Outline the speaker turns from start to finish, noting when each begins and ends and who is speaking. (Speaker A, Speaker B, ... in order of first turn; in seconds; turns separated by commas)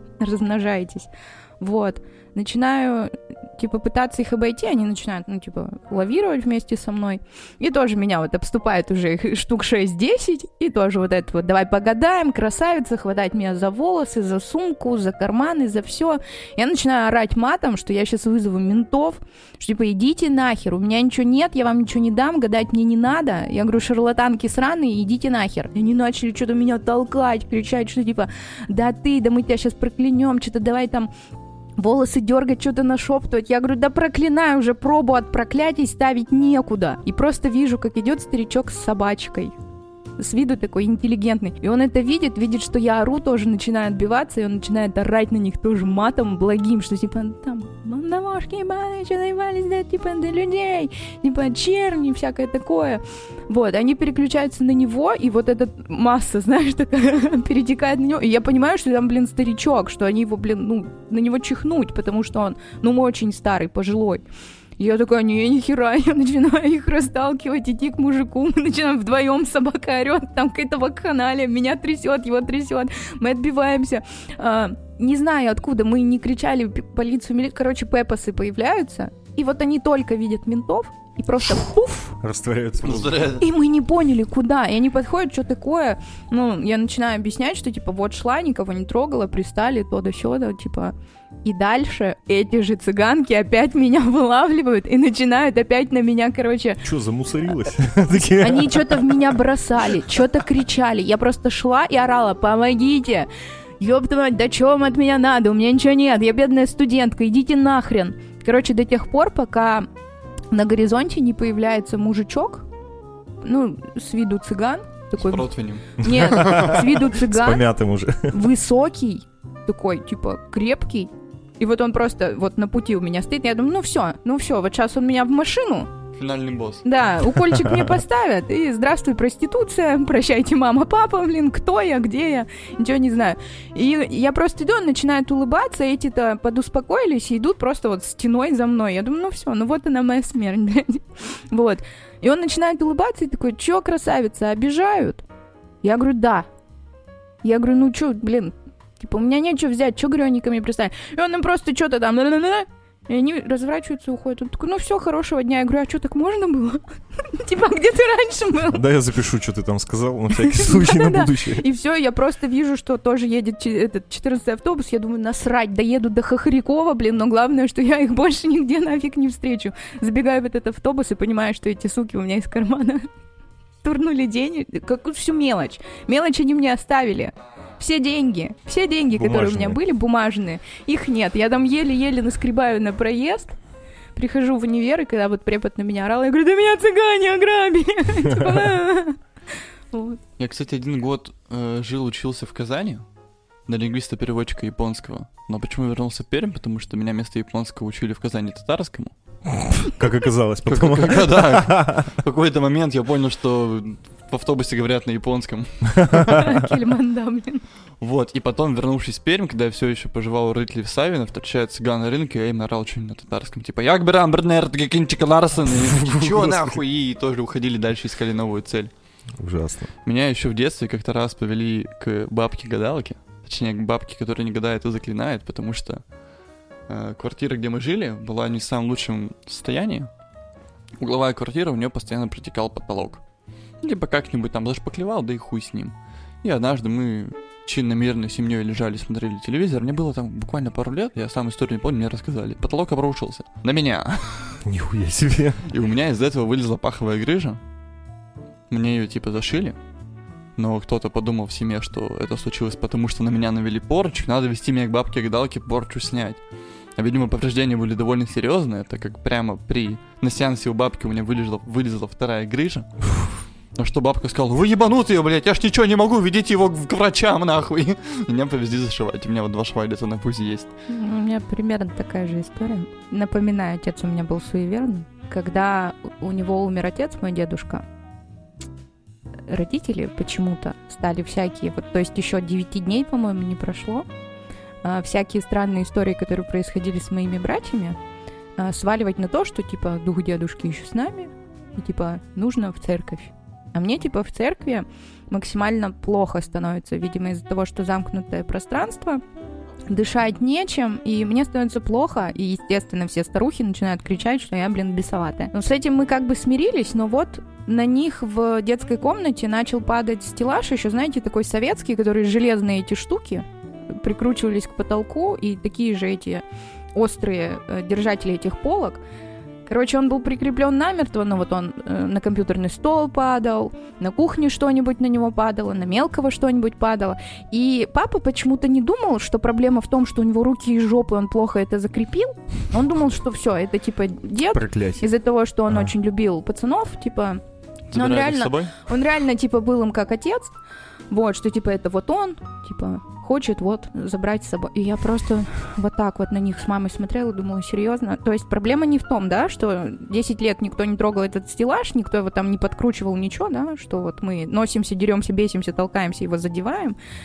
Speaker A: 0.2-31.1, Speaker A: 31.8-39.5, Speaker A: 40.2-64.3, Speaker A: 64.8-82.1, Speaker B: 82.2-83.3, Speaker C: 82.8-83.4, Speaker A: 83.4-96.8, Speaker B: 96.8-99.3, Speaker A: 98.4-103.3, Speaker A: 103.8-109.9, Speaker A: 110.5-112.7, Speaker A: 113.4-117.7, Speaker C: 115.2-116.6, Speaker B: 116.2-118.4, Speaker A: 118.2-125.9, Speaker C: 126.2-126.8, Speaker A: 126.8-145.2, Speaker A: 145.8-146.5, Speaker A: 147.4-158.8, Speaker B: 158.7-161.6, Speaker A: 160.4-173.1, Speaker A: 173.8-183.5, Speaker B: 179.1-179.8, Speaker A: 184.2-189.2, Speaker A: 189.9-190.2, Speaker C: 190.4-193.0, Speaker C: 193.7-199.1, Speaker B: 199.4-202.2, Speaker C: 200.6-206.6, Speaker A: 206.3-207.6, Speaker C: 208.0-218.9, Speaker B: 215.9-216.8, Speaker B: 219.4-219.9, Speaker C: 220.0-226.0, Speaker C: 226.9-230.1, Speaker C: 231.0-233.2, Speaker C: 233.8-244.6, Speaker B: 244.6-245.6, Speaker C: 245.6-247.6, Speaker C: 248.7-249.8, Speaker C: 250.6-256.4, Speaker C: 256.9-263.1, Speaker C: 263.7-270.7, Speaker A: 270.9-277.8, Speaker A: 279.5-284.1, Speaker A: 284.8-288.0, Speaker A: 288.6-299.2, Speaker A: 299.9-319.0, Speaker A: 319.6-337.4, Speaker B: 334.5-335.1, Speaker C: 337.9-338.7, Speaker A: 337.9-340.5, Speaker A: 341.1-356.9